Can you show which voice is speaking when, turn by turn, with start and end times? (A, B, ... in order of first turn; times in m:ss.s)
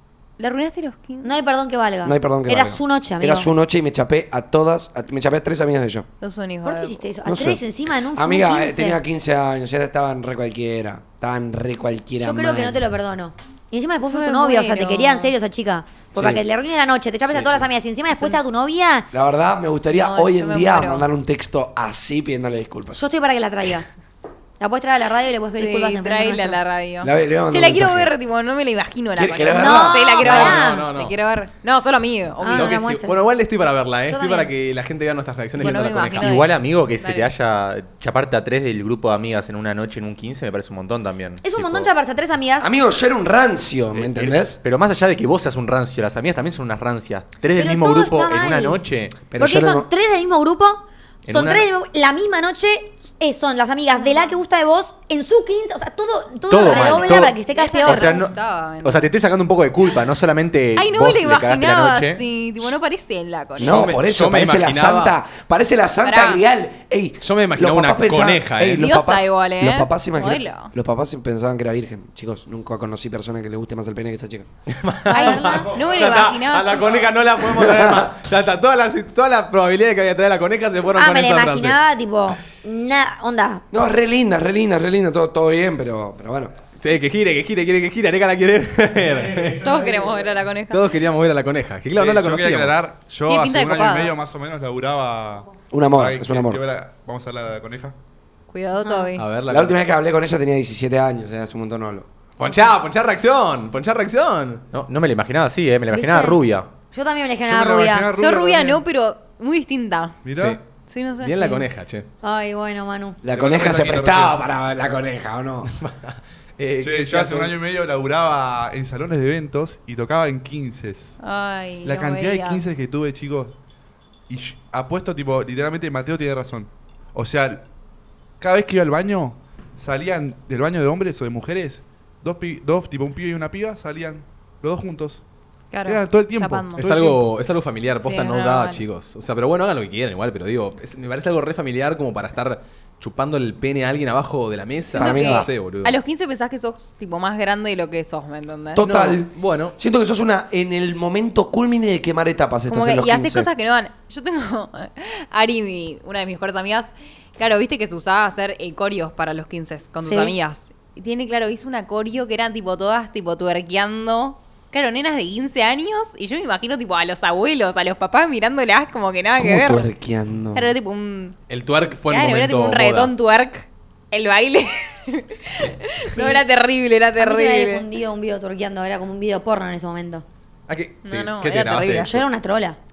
0:00.4-0:01.4 A
0:01.2-0:03.5 B
0:02.0-0:06.0 C
0:06.2-0:07.0 A
0:06.6-0:09.0 B
0:07.2-0:07.6 C
0:08.1-0:12.8 C
0:12.2-0:19.1 B
0:14.1-0:15.3 A
0:16.1-0:16.4 C
0:17.3-0:17.7 C
0:19.1-0:23.0 C
0:19.9-0:21.1 A
0:22.9-0:23.9 B
0:24.6-0:26.6 B
0:25.5-0:32.7 A
0:27.0-0:28.1 C
0:29.1-0:30.2 C
0:29.5-0:30.9 B
0:30.2-0:31.1 D
0:32.4-0:33.2 B
0:32.5-0:36.3 D
0:34.1-0:34.5 B
0:35.6-0:37.3 A
0:36.2-0:41.9 E
0:41.4-0:42.7 B
0:42.6-0:44.6 C
0:44.0-0:49.2 E
0:47.5-0:48.8 B
0:49.3-0:49.9 C
0:49.4-0:58.2 B
0:51.3-0:51.6 C
0:51.3-0:51.6 E
0:54.0-0:54.3 A
0:56.5-1:02.2 E
0:56.6-0:59.1 A
1:00.8-1:03.9 A
1:03.6-1:14.5 C
1:03.6-1:05.2 D
1:06.0-1:06.4 A
1:07.2-1:08.8 D
1:08.8-1:10.7 A
1:14.7-1:21.8 D
1:15.1-1:15.7 B
1:15.1-1:16.9 A
1:17.4-1:18.1 C
1:20.9-1:23.6 B
1:23.7-1:26.5 C
1:26.8-1:29.8 D
1:29.6-1:30.9 A
1:30.7-1:32.8 D
1:31.9-1:37.9 F
1:33.3-1:34.2 A
1:35.7-1:36.6 C
1:38.5-1:39.2 A
1:38.8-1:39.1 B
1:39.2-1:39.8 D
1:39.5-1:42.1 C
1:42.4-1:44.6 D
1:44.7-1:46.7 E
1:45.9-1:46.4 B
1:46.9-1:48.1 B
1:47.4-1:48.8 F
1:48.2-1:50.2 A
1:50.2-1:50.6 F
1:50.3-1:50.6 D
1:50.9-1:51.7 A
1:51.2-1:52.1 D
1:52.2-1:53.2 B
1:53.2-1:55.7 C
1:53.4-1:54.4 D
1:53.4-1:54.4 F
1:55.6-1:57.5 D
1:56.8-2:01.1 F
2:01.2-2:02.7 A
2:01.8-2:03.5 F
2:04.3-2:07.6 F
2:08.4-2:15.2 F
2:15.7-2:16.8 A
2:15.8-2:17.2 F
2:16.8-2:26.0 D
2:18.0-2:18.8 A
2:25.0-2:25.5 C
2:25.0-2:28.8 A
2:28.8-2:33.5 C
2:28.8-2:29.8 D
2:32.7-2:49.9 A
2:40.0-2:40.3 B
2:49.4-2:50.7 C
2:50.5-2:51.4 A
2:51.5-2:53.1 D
2:52.0-2:57.9 A
2:56.1-2:56.4 B
2:57.2-3:00.2 B
3:00.7-3:02.2 D
3:01.0-3:02.2 A
3:02.0-3:02.8 B